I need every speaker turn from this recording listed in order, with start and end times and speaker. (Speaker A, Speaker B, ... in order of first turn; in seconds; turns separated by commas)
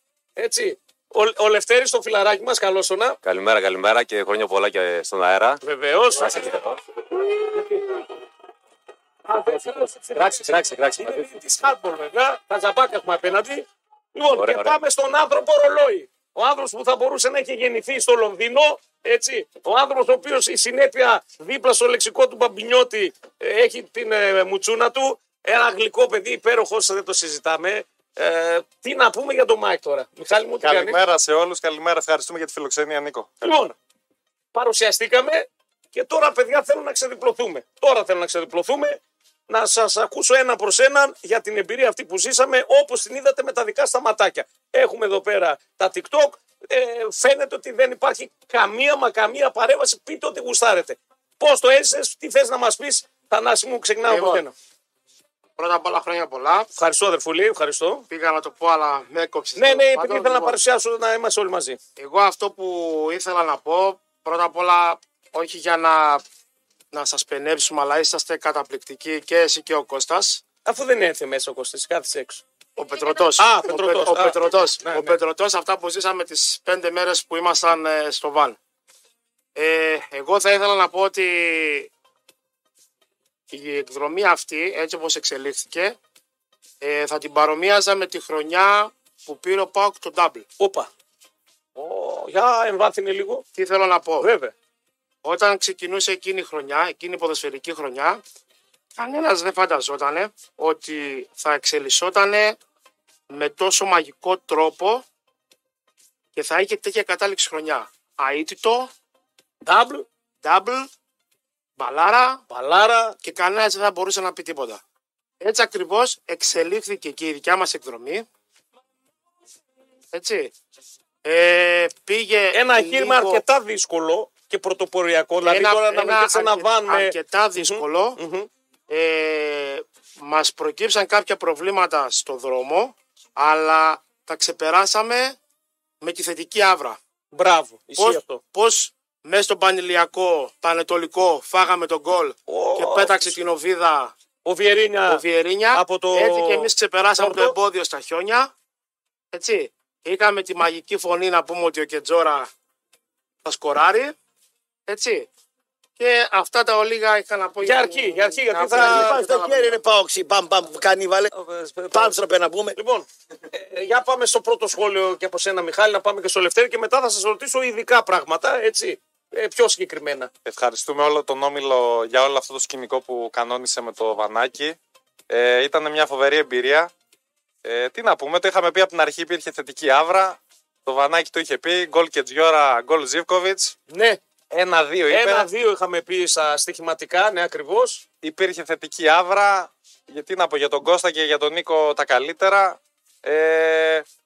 Speaker A: 0.4-3.2, Speaker B: 3.2-5.6, Speaker A: 5.6-6.5, Speaker B: 6.2-6.8, Speaker A: 7.5-7.8, Speaker A: 9.3-31.0, Speaker B: 9.5-11.3, Speaker B: 14.3-14.8, Speaker C: 30.6-33.5, Speaker A: 33.4-33.8, Speaker A: 34.5-54.5, Speaker D: 54.0-54.5, Speaker D: 55.6-56.7, Speaker A: 56.8-58.1, Speaker D: 58.1-60.6, Speaker A: 59.6-61.8, Speaker D: 62.0-66.2, Speaker D: 66.9-70.4, Speaker A: 70.7-72.4, Speaker D: 72.8-78.6, Speaker A: 73.4-75.2, Speaker D: 79.5-81.9, Speaker D: 83.5-86.0, Speaker D: 86.8-90.5, Speaker A: 90.6-90.9, Speaker A: 91.8-93.5, Speaker D: 93.6-94.3, Speaker A: 94.2-94.5, Speaker D: 95.2-98.2, Speaker D: 99.0-102.6, Speaker D: 103.3-105.0, Speaker D: 106.3-108.9, Speaker A: 109.7-110.1, Speaker D: 110.4-110.9, Speaker D: 111.8-112.4, Speaker A: 112.5-113.2, Speaker D: 113.2-114.8, Speaker D: 115.4-118.2, Speaker D: 120.1-120.5, Speaker D: 121.2-123.4, Speaker A: 122.5-128.5, Speaker D: 125.4-128.2, Speaker D: 128.9-135.4, Speaker D: 136.0-137.0, Speaker A: 137.3-138.4, Speaker D: 138.0-144.1, Speaker A: 142.5-143.3, Speaker A: 144.4-147.6, Speaker D: 145.1-148.5, Speaker D: 149.3-152.5, Speaker D: 153.4-154.2, Speaker D: 154.9-155.3, Speaker D: 156.0-159.8, Speaker A: 157.6-159.2, Speaker E: 158.7-161.3, Speaker A: 161.3-162.2, Speaker E: 161.9-162.8, Speaker A: 162.8-170.3, Speaker C: 170.5-174.8, Speaker C: 175.3-176.9, Speaker C: 177.6-183.8, Speaker A: 183.9-184.2, Speaker C: 184.5-185.5, Speaker A: 185.1-188.0, Speaker C: 188.2-194.1